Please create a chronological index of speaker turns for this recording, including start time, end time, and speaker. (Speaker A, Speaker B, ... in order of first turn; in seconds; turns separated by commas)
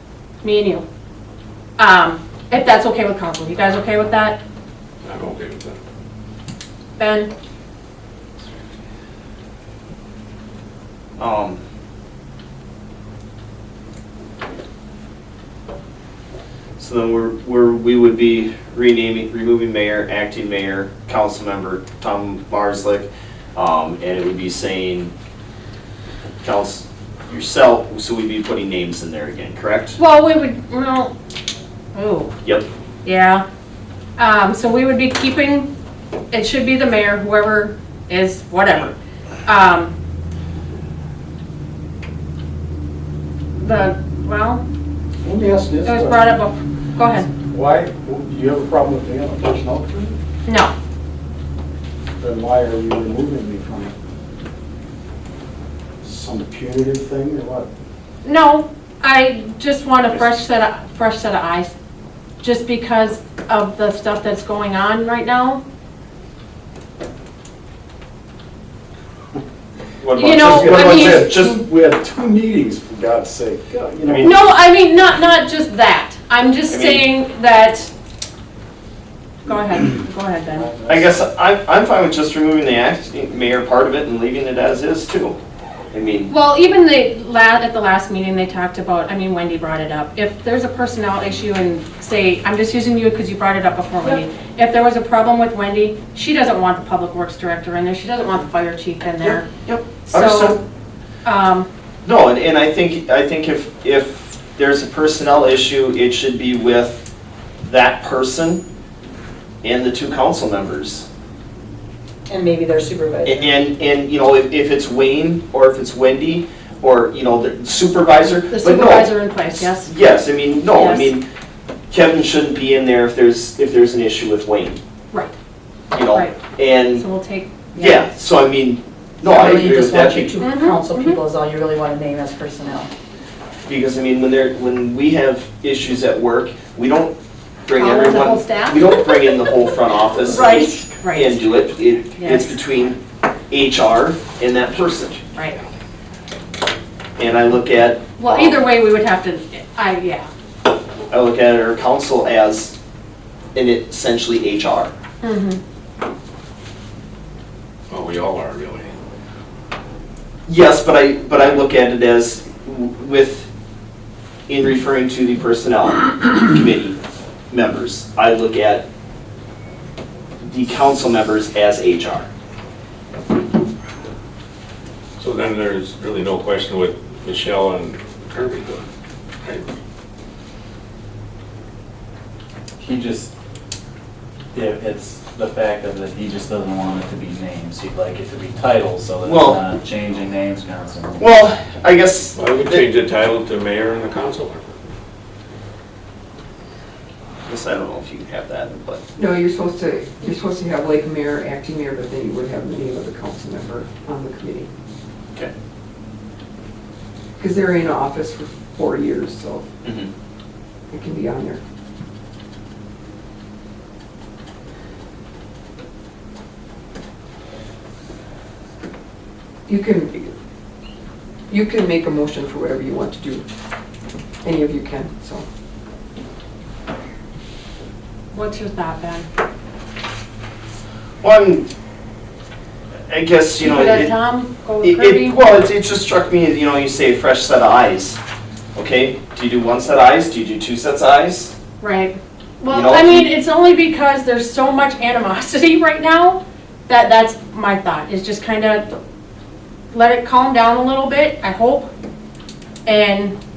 Speaker A: 0.4-0.8, Speaker A: 1.8-4.4, Speaker B: 5.0-5.8, Speaker A: 7.0-7.3, Speaker C: 11.2-11.6, Speaker C: 16.8-25.1, Speaker C: 26.4-30.0, Speaker A: 30.0-31.1, Speaker A: 31.9-32.3, Speaker A: 33.0-33.4, Speaker A: 34.2-35.7, Speaker A: 36.3-39.9, Speaker A: 43.6-44.6, Speaker D: 45.2-46.4, Speaker A: 45.8-47.3, Speaker D: 47.5-50.2, Speaker A: 50.5-50.7, Speaker D: 52.2-53.9, Speaker D: 56.0-57.7, Speaker A: 58.2-61.7, Speaker A: 62.4-65.6, Speaker D: 70.0-74.4, Speaker A: 70.1-71.4, Speaker C: 70.5-71.6, Speaker C: 74.0-74.5, Speaker A: 74.2-77.9, Speaker C: 76.7-77.1, Speaker A: 79.5-80.7, Speaker D: 80.5-81.2, Speaker C: 80.9-85.4, Speaker C: 85.9-86.3, Speaker A: 86.3-99.5, Speaker C: 99.2-100.6, Speaker A: 100.1-100.6, Speaker A: 101.2-101.7, Speaker C: 102.0-107.1, Speaker C: 107.7-108.6, Speaker C: 109.6-111.1, Speaker E: 112.3-113.5, Speaker C: 113.2-121.3, Speaker A: 118.4-119.9, Speaker A: 120.7-121.1, Speaker C: 121.9-124.8, Speaker C: 125.9-127.1, Speaker A: 126.1-128.0, Speaker C: 127.7-130.4, Speaker E: 129.3-132.9, Speaker A: 130.4-131.2, Speaker C: 133.7-137.2, Speaker C: 137.7-145.2, Speaker A: 137.8-138.9, Speaker A: 140.3-141.6, Speaker A: 142.2-142.6, Speaker C: 147.2-148.6, Speaker A: 148.2-150.3, Speaker C: 151.1-152.8, Speaker C: 153.5-154.9, Speaker A: 155.2-155.6, Speaker B: 157.9-158.9, Speaker C: 160.5-163.5, Speaker C: 164.5-167.0, Speaker C: 167.5-168.9, Speaker C: 170.4-172.3, Speaker B: 175.2-178.9, Speaker B: 179.4-179.7, Speaker F: 182.8-183.3, Speaker F: 184.5-191.2, Speaker C: 189.2-189.6, Speaker C: 191.2-192.9, Speaker B: 192.4-194.9, Speaker C: 197.5-199.0, Speaker G: 199.2-204.7, Speaker G: 207.4-209.7, Speaker C: 209.8-210.1, Speaker G: 210.9-211.6, Speaker G: 219.7-220.3, Speaker G: 221.5-223.4, Speaker G: 224.4-225.4, Speaker A: 228.3-229.3, Speaker C: 231.2-231.7, Speaker C: 233.1-234.2, Speaker A: 233.6-235.4, Speaker C: 234.8-238.2, Speaker C: 238.8-241.6, Speaker A: 241.8-248.9, Speaker C: 242.7-243.3, Speaker A: 249.9-251.9, Speaker A: 252.8-253.4